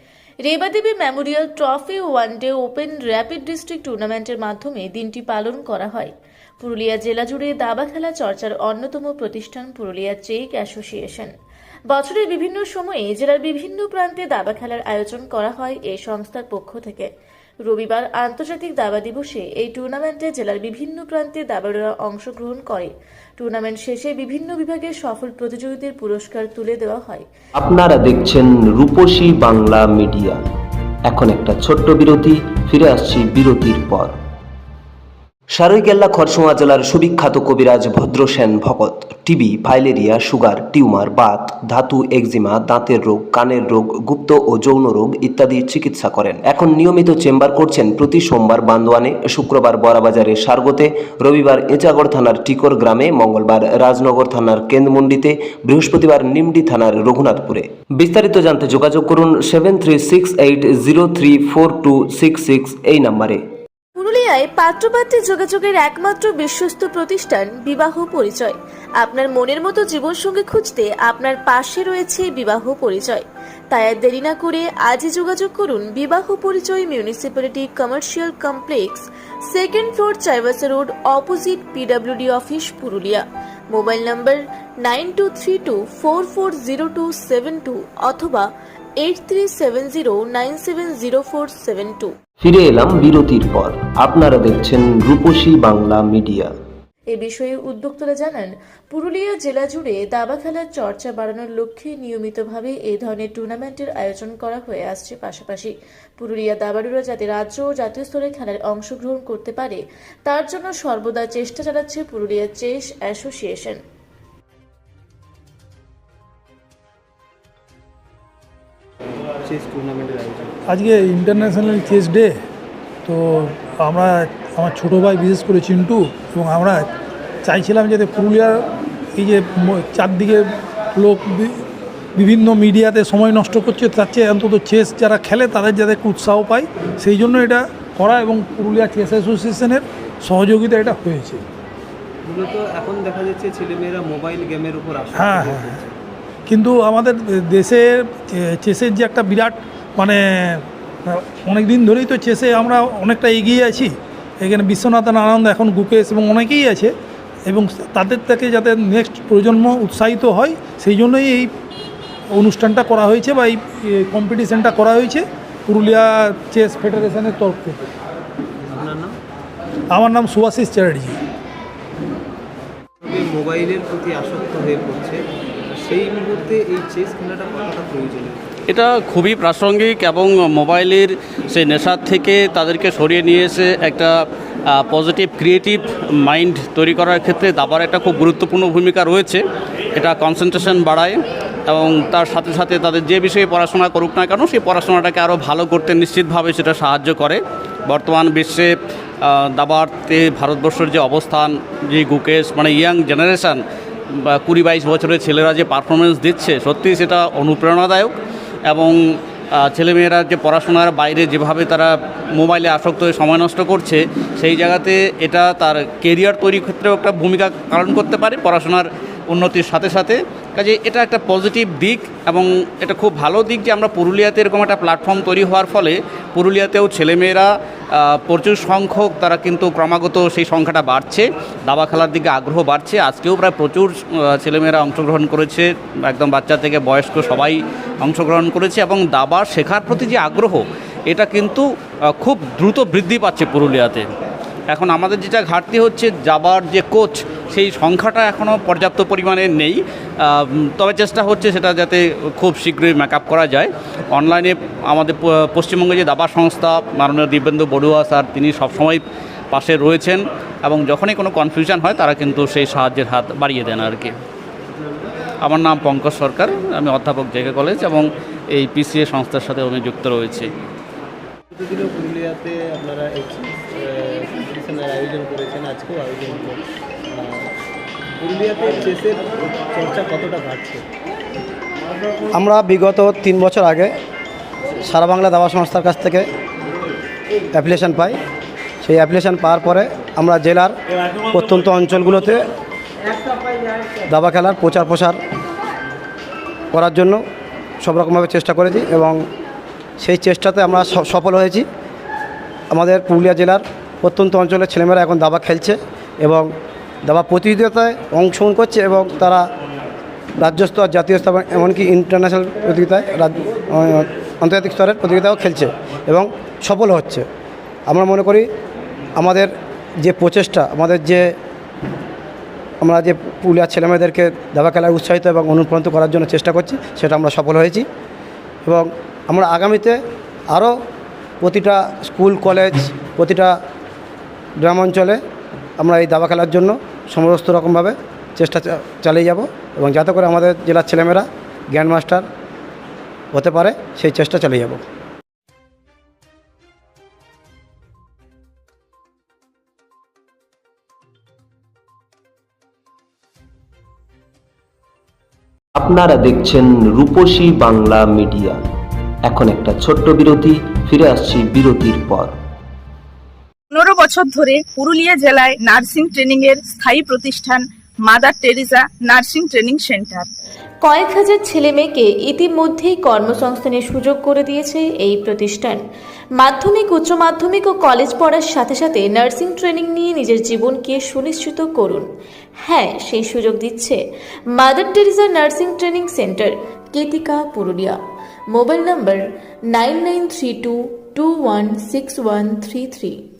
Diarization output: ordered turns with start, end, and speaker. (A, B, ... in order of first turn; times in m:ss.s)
0:00.5-0:11.3 A
0:11.9-0:17.1 A
0:17.6-0:27.3 A
0:27.6-0:30.4 B
0:31.1-0:34.1 B
0:35.5-1:03.4 B
1:04.0-1:28.5 A
1:29.0-1:32.1 A
1:32.4-1:36.5 B
1:37.1-1:53.8 A
1:59.3-2:00.5 C
2:00.7-2:02.4 D
2:03.1-2:06.9 D
2:07.4-2:08.6 D
2:09.2-2:11.6 D
2:12.2-2:21.4 D
2:22.3-2:26.0 C
2:25.2-2:25.8 D
2:26.5-2:36.9 D
2:37.5-2:41.5 D
2:42.3-2:47.8 D
2:48.6-2:49.2 C
2:49.9-2:51.2 D
2:53.0-2:58.5 C
2:58.7-3:04.1 E
3:04.7-3:09.4 E
3:10.0-3:23.6 E
3:24.1-3:28.1 E
3:28.7-3:28.9 E
3:29.6-4:01.6 E
4:02.2-4:04.1 E
4:04.7-4:19.0 E
4:19.5-4:24.2 E
4:25.4-4:28.0 E
4:28.6-4:30.5 E
4:31.5-4:37.5 C
4:38.2-4:40.8 C
4:42.3-4:43.9 F
4:44.8-4:46.3 F
4:47.5-4:48.2 F
4:48.8-4:50.7 F
4:51.3-4:52.4 F
4:54.1-4:55.2 F
4:56.7-4:57.2 F
4:57.8-4:59.2 F
5:00.0-5:01.7 F
5:02.7-5:06.5 F
5:07.1-5:09.4 F
5:10.4-5:17.2 F
5:17.9-5:18.5 F
5:19.2-5:19.5 F
5:20.0-5:21.4 F
5:22.8-5:27.8 F
5:28.6-5:30.0 F
5:31.4-5:33.6 F
5:34.6-5:35.2 F
5:35.8-5:42.2 F
5:43.3-5:44.8 F
5:55.8-5:58.6 B
5:59.2-6:02.3 B
6:03.7-6:10.3 G
6:10.8-6:15.8 A
6:16.4-6:22.1 A
6:22.6-6:24.0 A
6:24.6-6:28.0 A
6:28.5-6:33.2 A